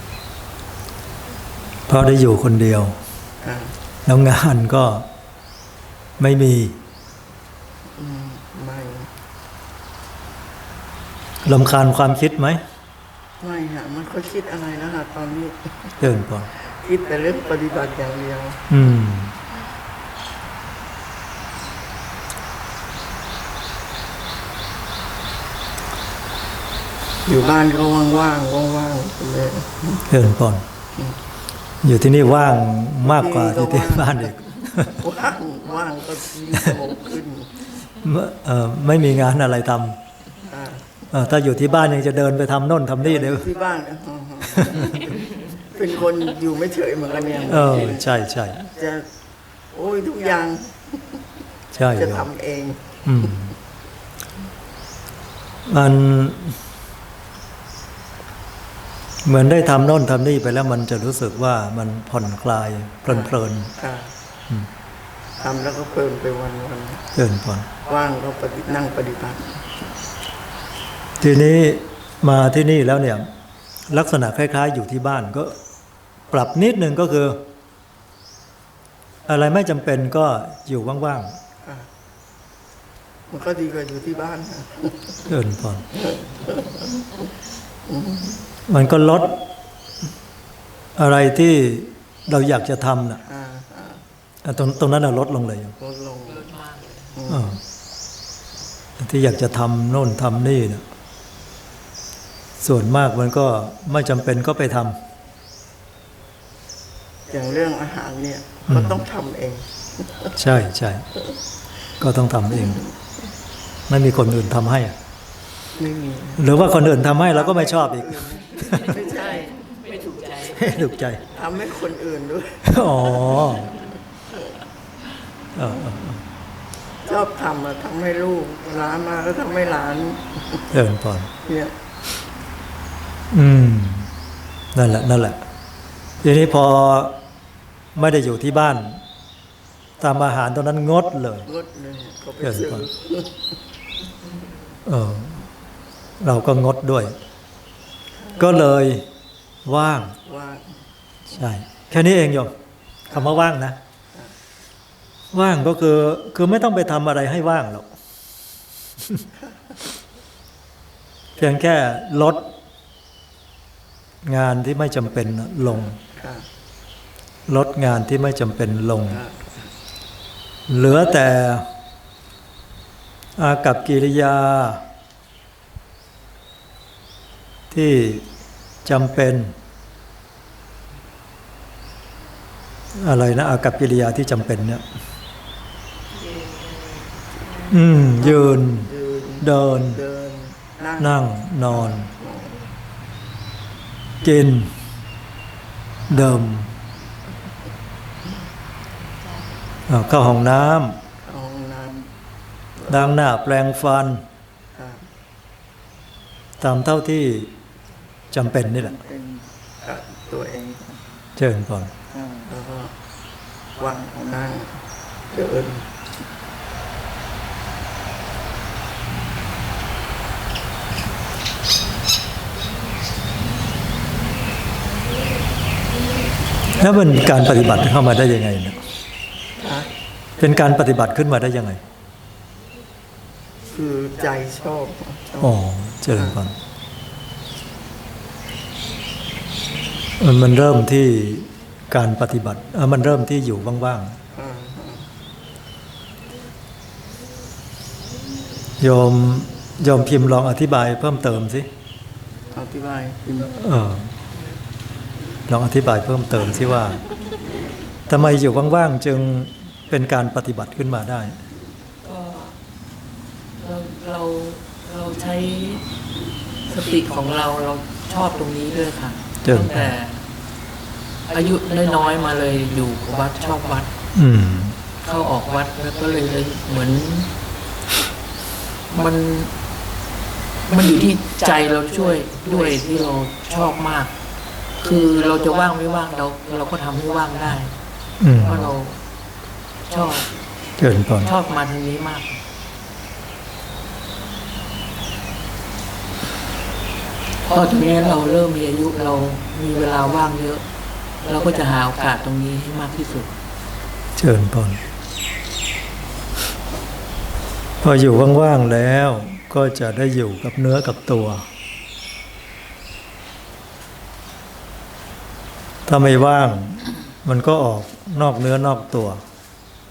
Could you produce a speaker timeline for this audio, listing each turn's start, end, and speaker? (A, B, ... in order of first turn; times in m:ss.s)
0:01.9-0:03.0 A
0:03.4-0:03.8 B
0:04.0-0:05.0 A
0:06.2-0:06.8 A
0:07.9-0:09.1 B
0:11.4-0:12.6 A
0:13.4-0:15.9 B
0:16.0-0:16.5 A
0:16.6-0:18.6 B
0:18.7-0:19.3 A
0:27.2-0:30.0 B
0:30.1-0:30.6 A
0:31.8-0:35.0 A
0:33.0-0:34.3 B
0:34.9-0:37.6 B
0:38.0-0:40.0 A
0:40.5-0:40.9 B
0:41.1-0:43.5 A
0:43.0-0:48.0 B
0:44.5-0:44.8 A
0:47.5-0:48.6 A
0:48.6-0:49.0 B
0:49.7-0:51.2 B
0:51.7-0:52.3 A
0:51.9-0:53.0 B
0:53.0-0:53.5 A
0:55.7-0:56.6 A
0:59.2-1:03.7 A
1:03.1-1:04.1 B
1:05.4-1:07.0 B
1:07.1-1:07.7 A
1:07.8-1:09.7 B
1:11.2-1:13.2 A
1:13.9-1:15.5 A
1:16.3-1:17.4 A
1:19.3-1:21.4 A
1:23.3-1:25.2 B
1:25.3-1:25.9 A
1:26.0-1:26.9 B
1:27.9-1:28.4 B
1:28.7-1:29.3 A
1:31.0-1:33.2 A
1:33.3-1:34.0 B
1:34.4-1:35.7 A
1:35.8-1:36.4 B
1:36.3-1:37.1 C
1:37.1-1:37.5 B
1:37.3-1:37.6 A
1:39.0-1:40.8 A
1:42.6-1:44.9 A
1:47.3-1:50.3 B
1:48.7-1:49.0 A
1:50.3-1:51.0 A
1:52.0-1:52.8 A
1:53.9-1:55.0 A
1:55.8-1:56.4 B
1:56.4-1:59.0 A
1:57.3-1:59.5 B
1:58.9-2:00.6 C
2:00.5-2:01.2 A
2:01.3-2:03.3 B
2:02.6-2:03.8 A
2:05.5-2:06.2 A
2:07.0-2:10.6 B
2:10.7-2:11.3 A
2:11.4-2:11.7 B
2:13.3-2:14.1 A
2:14.7-2:15.4 A
2:16.2-2:17.2 A
2:17.9-2:19.0 A
2:20.0-2:21.5 A
2:21.4-2:23.4 B
2:22.4-2:22.9 A
2:24.8-2:25.4 A
2:26.2-2:27.1 A
2:28.4-2:29.1 A
2:29.6-2:30.1 A
2:30.2-2:30.7 B
2:31.3-2:32.5 A
2:33.1-2:33.8 A
2:35.3-2:37.9 A
2:41.4-2:42.4 A
2:44.2-2:46.0 A
2:46.2-2:46.4 B
2:47.5-2:49.2 A
2:49.1-2:49.5 B
2:50.7-2:51.7 A
2:53.4-2:54.8 A
2:57.7-2:58.3 A
2:58.8-2:59.5 A
3:02.9-3:04.8 A
3:06.4-3:07.0 C
3:07.7-3:10.0 A
3:08.2-3:11.2 B
3:11.0-3:12.1 A
3:11.7-3:12.6 B
3:14.2-3:14.7 A
3:16.1-3:16.7 A
3:19.9-3:21.0 A
3:21.2-3:22.1 B
3:22.8-3:23.0 B
3:22.9-3:24.2 A
3:24.7-3:25.0 B
3:26.6-3:27.5 A
3:28.3-3:29.0 A
3:28.8-3:31.0 B
3:31.4-3:31.9 A
3:32.1-3:32.9 B
3:33.8-3:34.8 B
3:35.3-3:35.8 B
3:46.7-3:48.8 A
3:49.6-3:49.9 B
3:50.4-3:51.8 A
3:53.7-3:55.6 B
3:55.4-3:56.6 A
4:00.2-4:04.2 A
4:04.3-4:05.1 B
4:08.8-4:11.7 A
4:12.5-4:13.5 B
4:13.5-4:14.1 A
4:15.5-4:17.0 A
4:18.1-4:21.4 A
4:22.0-4:22.5 C
4:23.6-4:25.8 C
4:26.7-4:30.2 C
4:29.4-4:29.9 A
4:31.3-4:33.9 C
4:34.1-4:34.8 A
4:35.0-4:37.3 C
4:38.9-4:39.5 C
4:40.7-4:44.1 C
4:44.8-4:47.8 C
4:48.2-4:48.7 A
4:48.4-4:49.0 C
4:49.8-4:50.3 C
4:50.8-4:51.3 A
4:51.2-4:52.4 C
4:57.4-5:00.6 C
5:01.2-5:03.3 C
5:04.2-5:04.8 A
5:07.8-5:11.4 A
5:15.9-5:19.2 A